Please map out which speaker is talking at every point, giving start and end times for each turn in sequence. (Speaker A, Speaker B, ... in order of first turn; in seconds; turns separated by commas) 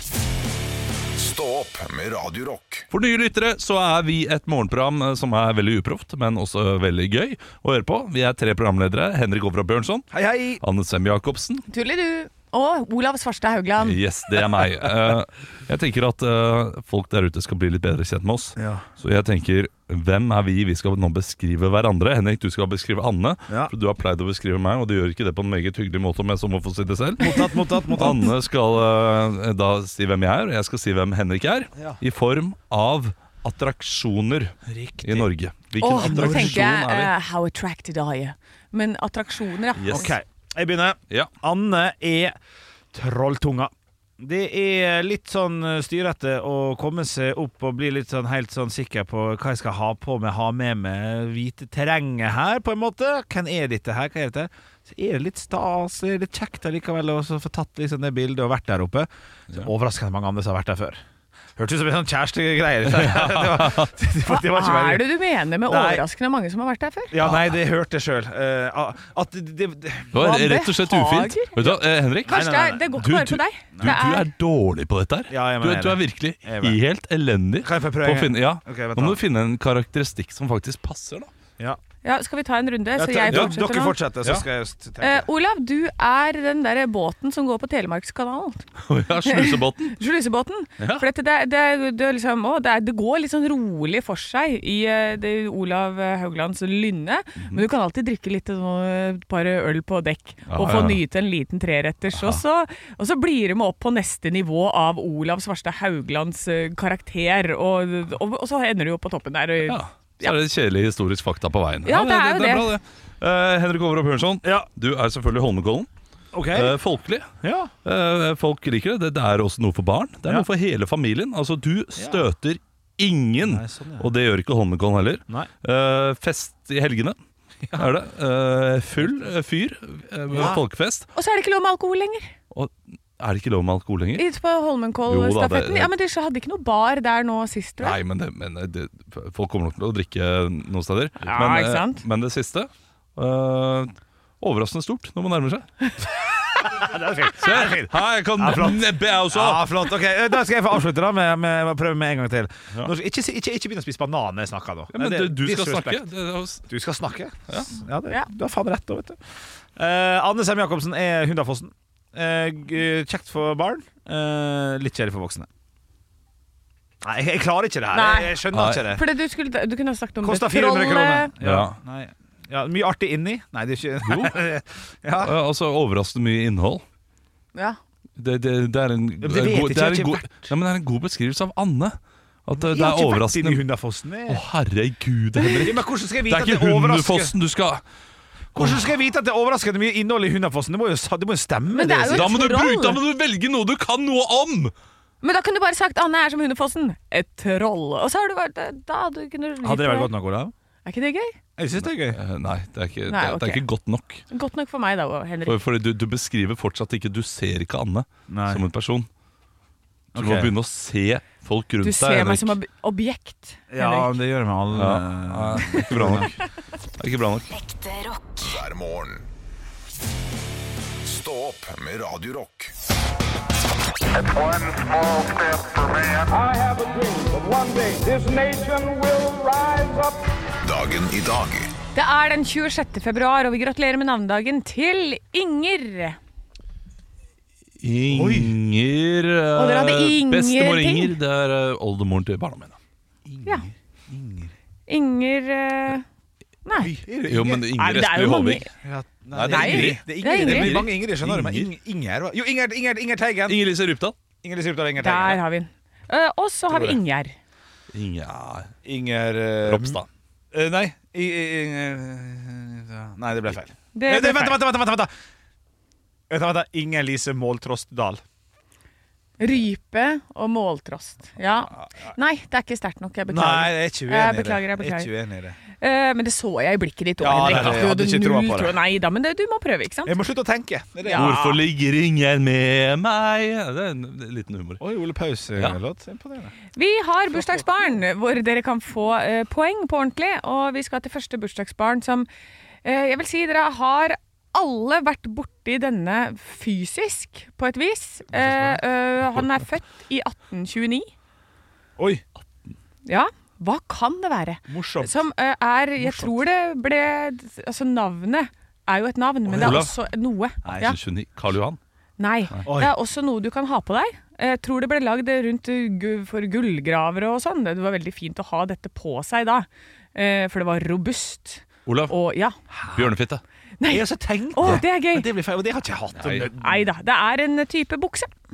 Speaker A: 1.1-2.9, Speaker B: 2.9-10.1, Speaker C: 10.1-10.6, Speaker B: 10.6-11.6, Speaker D: 11.7-14.0, Speaker B: 13.8-37.1, Speaker C: 18.6-18.9, Speaker C: 23.5-23.7, Speaker C: 27.2-28.3, Speaker C: 34.6-35.3, Speaker D: 35.8-40.1, Speaker C: 36.0-36.6, Speaker B: 39.8-40.1, Speaker C: 39.9-42.3, Speaker C: 42.9-61.0, Speaker C: 61.6-65.1, Speaker B: 62.9-63.9, Speaker D: 64.3-67.1, Speaker C: 65.7-66.0, Speaker C: 67.1-70.2, Speaker B: 70.1-81.3, Speaker D: 70.1-71.5, Speaker C: 71.6-72.9, Speaker D: 72.2-74.2, Speaker C: 75.3-76.8, Speaker C: 77.6-79.2, Speaker D: 82.0-84.0, Speaker C: 83.0-85.3, Speaker D: 85.0-88.7, Speaker B: 88.8-90.0, Speaker D: 89.2-110.3, Speaker B: 90.8-91.0, Speaker B: 100.5-101.0, Speaker B: 102.1-102.4, Speaker B: 109.6-115.9, Speaker D: 111.8-112.7, Speaker C: 114.4-114.7, Speaker C: 116.3-116.7, Speaker B: 116.5-117.3, Speaker C: 117.4-117.7, Speaker B: 117.8-127.2, Speaker C: 122.0-122.2, Speaker C: 123.4-124.1, Speaker B: 127.8-131.1, Speaker C: 130.3-130.6, Speaker D: 131.1-132.3, Speaker B: 132.5-134.2, Speaker D: 134.2-138.0, Speaker B: 135.1-135.9, Speaker B: 137.8-145.7, Speaker D: 141.3-142.0, Speaker C: 146.6-156.0, Speaker B: 147.4-149.7, Speaker B: 154.9-156.7, Speaker C: 156.7-159.2, Speaker C: 159.8-165.5, Speaker C: 167.0-169.0, Speaker D: 167.9-171.3, Speaker B: 168.5-168.9, Speaker C: 170.2-175.3, Speaker B: 171.4-171.8, Speaker B: 174.0-174.4, Speaker B: 175.2-176.8, Speaker B: 178.2-183.6, Speaker C: 179.2-180.5, Speaker C: 182.6-184.4, Speaker B: 184.3-187.8, Speaker C: 185.5-187.3, Speaker B: 188.5-188.9, Speaker C: 188.5-192.4, Speaker D: 191.7-193.0, Speaker B: 192.1-194.7, Speaker D: 195.2-200.1, Speaker C: 199.6-200.5, Speaker D: 200.8-201.3, Speaker C: 201.6-202.2, Speaker B: 201.8-204.2, Speaker D: 203.1-203.6, Speaker D: 204.3-205.6, Speaker B: 205.4-209.1, Speaker C: 208.3-208.6, Speaker C: 210.1-210.5, Speaker B: 210.2-212.6, Speaker D: 211.8-214.1, Speaker C: 213.7-216.3, Speaker B: 214.7-216.4, Speaker B: 217.0-217.5, Speaker A: 217.7-219.3, Speaker A: 221.0-222.7, Speaker A: 224.4-226.3, Speaker E: 227.1-229.9, Speaker A: 230.6-231.7, Speaker D: 231.9-236.2, Speaker B: 237.8-242.8, Speaker C: 238.1-238.5, Speaker D: 239.5-241.1, Speaker C: 243.2-244.5, Speaker D: 244.9-246.0, Speaker D: 246.6-246.9, Speaker C: 246.8-247.7, Speaker B: 247.2-248.7, Speaker D: 247.7-248.7, Speaker C: 248.8-253.6, Speaker B: 249.3-251.7, Speaker D: 249.5-250.8, Speaker B: 253.5-254.2, Speaker C: 254.4-255.4, Speaker D: 255.0-257.3, Speaker B: 257.9-258.7, Speaker C: 258.8-260.0, Speaker B: 259.6-260.1, Speaker C: 260.5-265.1, Speaker D: 263.9-264.6, Speaker C: 266.3-268.2, Speaker D: 269.4-275.1, Speaker C: 273.3-275.6, Speaker D: 275.8-280.1, Speaker C: 277.2-278.8, Speaker B: 277.5-277.9, Speaker C: 280.1-281.4, Speaker D: 281.0-281.6, Speaker B: 281.1-284.8, Speaker C: 284.8-286.5, Speaker D: 286.8-292.3, Speaker D: 292.8-301.1, Speaker C: 298.4-298.8, Speaker C: 302.0-302.2, Speaker D: 303.1-310.9, Speaker C: 304.7-305.1, Speaker C: 306.0-306.4, Speaker C: 309.5-309.9, Speaker B: 309.6-309.9, Speaker C: 310.6-310.9, Speaker B: 310.6-311.8, Speaker D: 312.2-322.5, Speaker C: 312.6-312.9, Speaker B: 321.9-322.1, Speaker C: 322.7-323.1, Speaker B: 322.9-323.4, Speaker D: 323.8-325.2, Speaker C: 323.9-326.8, Speaker B: 326.1-326.5, Speaker D: 326.4-328.3